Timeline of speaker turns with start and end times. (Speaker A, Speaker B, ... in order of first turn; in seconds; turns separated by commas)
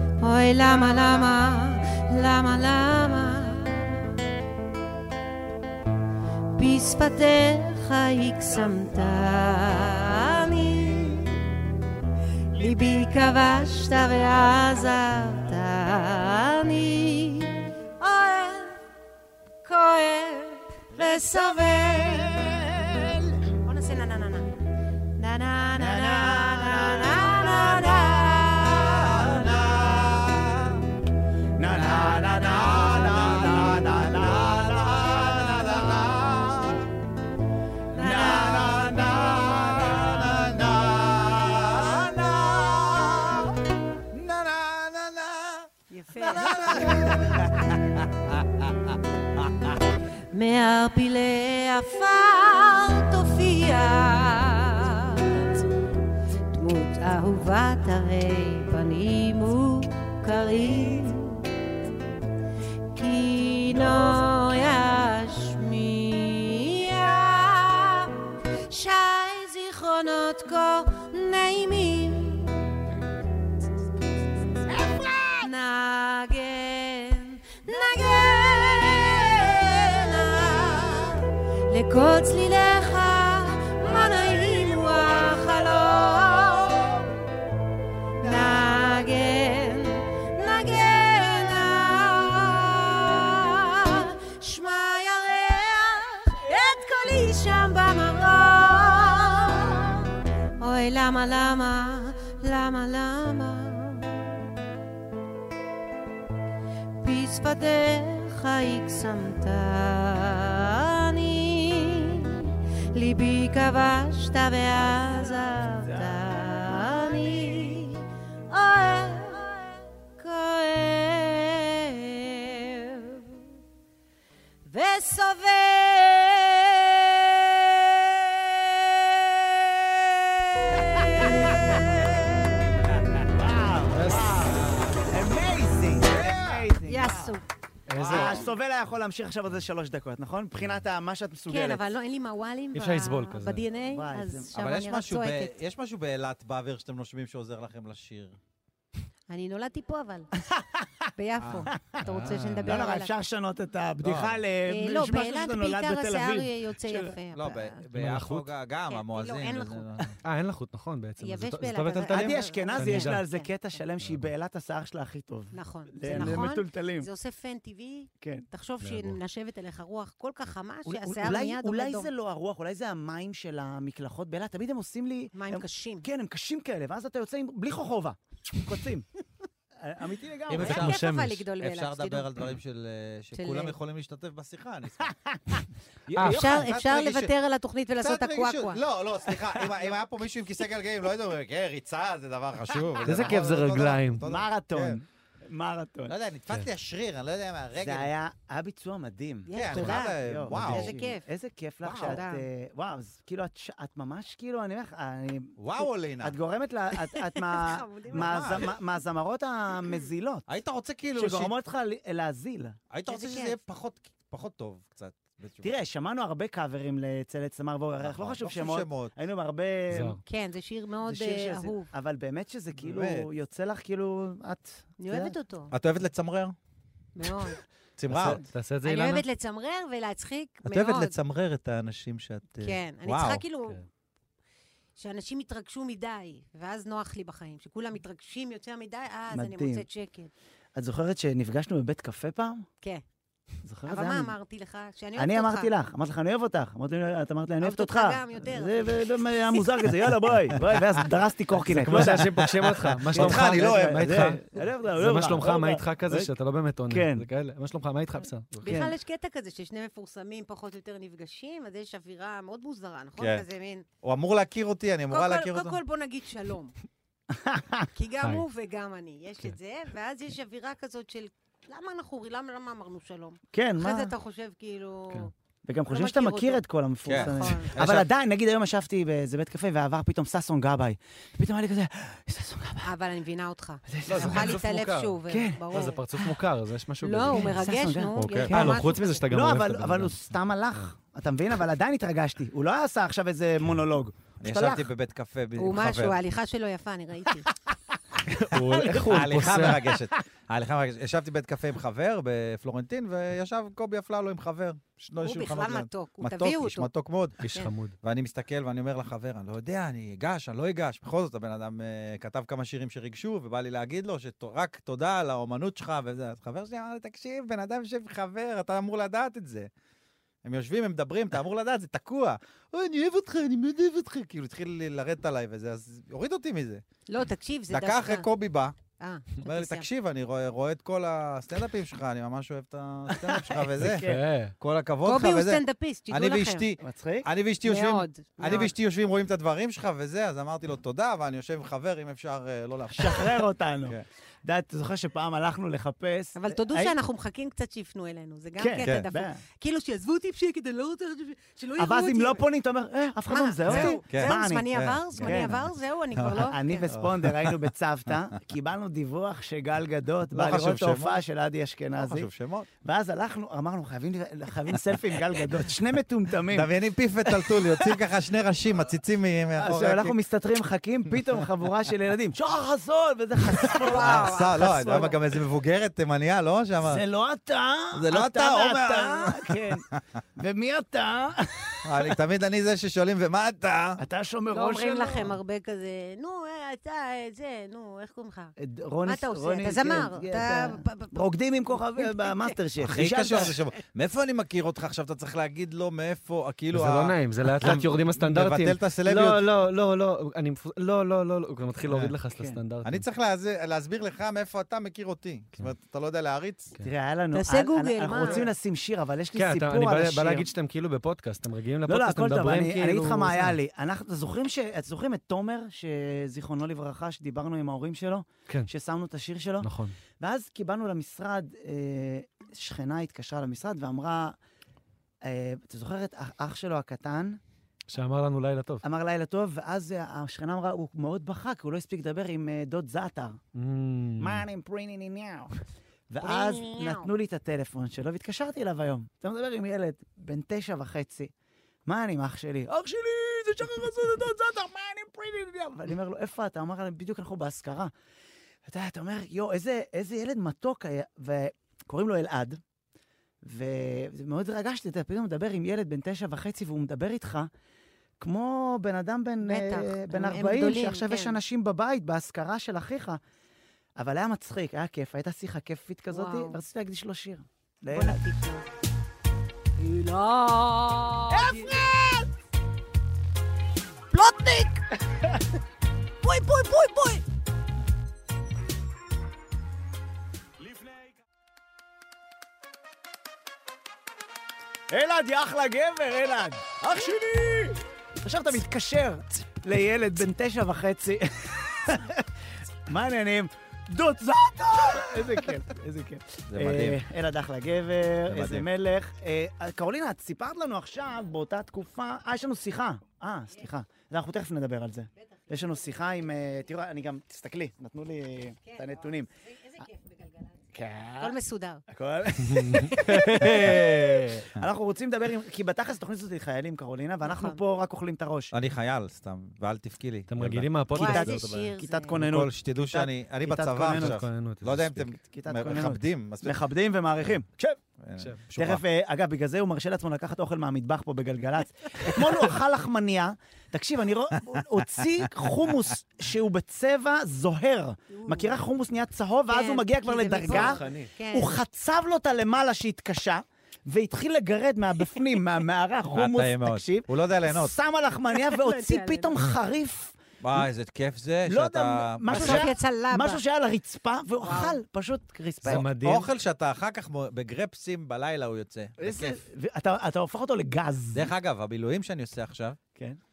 Speaker A: 0.2-4.1, Speaker A: 6.5-11.4, Speaker A: 12.5-18.8, Speaker A: 19.6-22.5, Speaker B: 21.8-23.4, Speaker A: 23.6-24.5, Speaker A: 25.1-29.4, Speaker B: 25.7-28.1, Speaker B: 29.0-29.8, Speaker C: 29.2-30.8, Speaker B: 31.6-36.0, Speaker C: 31.7-36.9, Speaker B: 37.9-40.3, Speaker A: 38.0-38.5, Speaker C: 38.0-43.6, Speaker C: 44.1-49.8, Speaker A: 45.9-47.2, Speaker A: 50.3-55.6, Speaker A: 56.5-61.5, Speaker A: 62.9-72.7, Speaker D: 63.8-64.2, Speaker A: 75.4-87.1, Speaker A: 88.2-104.2, Speaker A: 107.0-123.4, Speaker B: 115.8-116.3, Speaker A: 124.7-129.4, Speaker A: 130.6-132.2, Speaker B: 131.2-131.8, Speaker B: 133.2-137.3, Speaker D: 133.9-134.5, Speaker C: 134.4-135.1, Speaker C: 136.0-136.6, Speaker A: 136.8-137.4, Speaker D: 137.9-138.4, Speaker C: 137.9-138.5, Speaker B: 138.0-141.8, Speaker A: 141.5-145.5, Speaker D: 142.7-143.6, Speaker B: 143.8-144.5, Speaker C: 144.5-148.4, Speaker A: 149.3-150.3, Speaker B: 150.5-150.9, Speaker A: 151.2-153.1, Speaker D: 152.0-152.8, Speaker B: 152.6-157.1, Speaker C: 154.0-154.4, Speaker A: 154.7-157.8, Speaker C: 157.3-160.2, Speaker D: 157.9-158.5, Speaker A: 158.9-159.9, Speaker D: 160.2-163.2, Speaker A: 161.2-163.5, Speaker B: 162.1-167.1, Speaker D: 164.0-164.3, Speaker A: 165.5-172.1, Speaker D: 166.1-166.5, Speaker B: 168.2-168.4, Speaker D: 168.8-169.2, Speaker B: 170.8-179.1, Speaker A: 175.3-176.1, Speaker B: 179.8-180.8, Speaker C: 180.5-181.1, Speaker A: 180.5-182.3, Speaker D: 180.6-181.4, Speaker C: 181.6-185.1, Speaker A: 183.3-183.8, Speaker B: 185.0-186.5, Speaker D: 186.1-186.5, Speaker A: 186.2-188.8, Speaker C: 186.2-187.3, Speaker C: 188.0-195.0, Speaker B: 189.4-189.8, Speaker D: 193.0-194.2, Speaker B: 193.1-193.4, Speaker B: 194.2-196.1, Speaker C: 196.1-198.1, Speaker B: 197.8-205.6, Speaker A: 199.5-201.3, Speaker C: 199.5-201.0, Speaker C: 201.8-202.2, Speaker A: 201.9-202.4, Speaker C: 205.6-206.4, Speaker B: 206.2-210.4, Speaker A: 207.0-208.7, Speaker C: 208.1-208.7, Speaker C: 210.5-211.5, Speaker B: 211.1-212.8, Speaker C: 212.9-215.7, Speaker A: 213.1-213.6, Speaker B: 215.6-220.2, Speaker C: 218.0-219.1, Speaker D: 219.9-220.2, Speaker A: 220.2-221.9, Speaker B: 221.0-225.3, Speaker C: 222.8-223.3, Speaker A: 225.0-225.7, Speaker C: 225.7-226.6, Speaker A: 227.1-227.6, Speaker C: 228.0-228.4, Speaker D: 228.1-229.2, Speaker A: 228.8-231.2, Speaker C: 230.6-233.4, Speaker A: 232.6-233.8, Speaker A: 235.0-240.3, Speaker B: 239.3-239.8, Speaker B: 240.7-242.7, Speaker B: 243.6-244.3, Speaker A: 243.9-245.7, Speaker B: 245.2-252.5, Speaker A: 247.6-249.8, Speaker D: 251.5-258.7, Speaker C: 252.0-254.3, Speaker B: 253.1-256.3, Speaker B: 256.9-257.2, Speaker A: 258.6-263.9, Speaker B: 258.6-258.9, Speaker C: 263.2-263.4, Speaker C: 264.0-265.8, Speaker A: 265.1-266.7, Speaker B: 267.3-267.9, Speaker A: 267.9-275.3, Speaker B: 273.5-274.1, Speaker B: 275.6-282.9, Speaker A: 275.9-277.7, Speaker C: 277.0-278.1, Speaker A: 282.8-286.0, Speaker B: 283.9-284.6, Speaker D: 284.1-285.2, Speaker B: 285.3-285.7, Speaker D: 285.7-287.6, Speaker A: 287.0-289.2, Speaker B: 287.3-294.9, Speaker D: 288.2-290.2, Speaker C: 288.3-288.5, Speaker C: 294.4-296.2, Speaker A: 295.6-297.5, Speaker B: 298.3-299.3, Speaker D: 298.3-299.9, Speaker C: 299.0-307.4, Speaker A: 305.2-306.9, Speaker D: 307.4-307.9, Speaker C: 308.0-319.7, Speaker C: 320.4-326.8, Speaker A: 327.1-328.3, Speaker C: 327.7-328.8, Speaker A: 329.0-329.9, Speaker C: 329.4-334.1, Speaker B: 333.1-334.2, Speaker D: 333.8-334.5, Speaker C: 334.6-344.0, Speaker A: 335.0-336.7, Speaker B: 336.8-337.3, Speaker A: 337.6-338.7, Speaker B: 342.9-346.9, Speaker A: 346.4-352.4, Speaker B: 348.6-349.4, Speaker C: 348.8-349.1, Speaker B: 351.8-355.5, Speaker A: 353.3-356.9, Speaker C: 353.7-355.6, Speaker C: 356.2-357.7, Speaker B: 356.4-362.3, Speaker C: 360.3-361.2, Speaker C: 361.9-362.7, Speaker B: 362.8-366.7, Speaker C: 366.5-370.2, Speaker B: 367.3-367.9, Speaker B: 369.6-375.1, Speaker C: 373.7-377.0, Speaker A: 373.8-375.2, Speaker B: 376.8-382.1, Speaker C: 377.9-379.8, Speaker C: 381.8-384.0, Speaker B: 384.0-385.3, Speaker A: 384.5-388.5, Speaker B: 388.6-393.5, Speaker A: 389.0-392.6, Speaker C: 392.8-399.4, Speaker D: 396.7-403.0, Speaker C: 401.9-402.1, Speaker B: 402.3-402.6, Speaker C: 402.8-406.7, Speaker B: 406.8-410.5, Speaker A: 407.3-408.5, Speaker D: 409.3-413.6, Speaker B: 411.9-424.4, Speaker D: 419.6-420.0, Speaker B: 425.2-427.4, Speaker D: 427.9-428.8, Speaker B: 428.8-433.4, Speaker D: 433.5-434.4, Speaker B: 434.2-441.3, Speaker A: 436.2-437.1, Speaker B: 441.9-447.9, Speaker B: 448.6-452.6, Speaker B: 453.4-457.5, Speaker B: 458.2-463.2, Speaker A: 459.4-461.4, Speaker B: 464.0-468.2, Speaker A: 466.1-466.6, Speaker A: 467.9-468.6, Speaker A: 469.8-471.8, Speaker B: 471.3-472.3, Speaker A: 474.1-474.7, Speaker B: 474.3-475.5, Speaker A: 476.2-477.2, Speaker B: 476.3-477.2, Speaker B: 484.9-492.3, Speaker B: 492.9-509.3, Speaker C: 496.5-497.0, Speaker C: 498.3-498.7, Speaker A: 505.2-506.0, Speaker A: 508.6-510.6, Speaker B: 510.7-511.4, Speaker A: 511.2-511.8, Speaker B: 511.9-518.5, Speaker D: 512.4-514.5, Speaker A: 517.2-517.6, Speaker C: 518.5-520.8, Speaker D: 520.3-521.7, Speaker A: 520.9-522.1, Speaker B: 520.9-524.2, Speaker C: 522.1-526.6, Speaker D: 523.9-525.0, Speaker B: 525.1-527.8, Speaker C: 528.0-528.8, Speaker B: 528.5-550.6, Speaker A: 538.1-538.6, Speaker A: 539.5-541.6, Speaker D: 540.4-541.1, Speaker C: 546.1-547.8, Speaker A: 548.3-549.4, Speaker C: 550.4-552.7, Speaker B: 551.5-555.9, Speaker A: 552.3-553.4, Speaker A: 554.4-554.8, Speaker C: 555.6-559.4, Speaker D: 555.6-556.3, Speaker B: 559.0-561.3, Speaker C: 561.1-562.8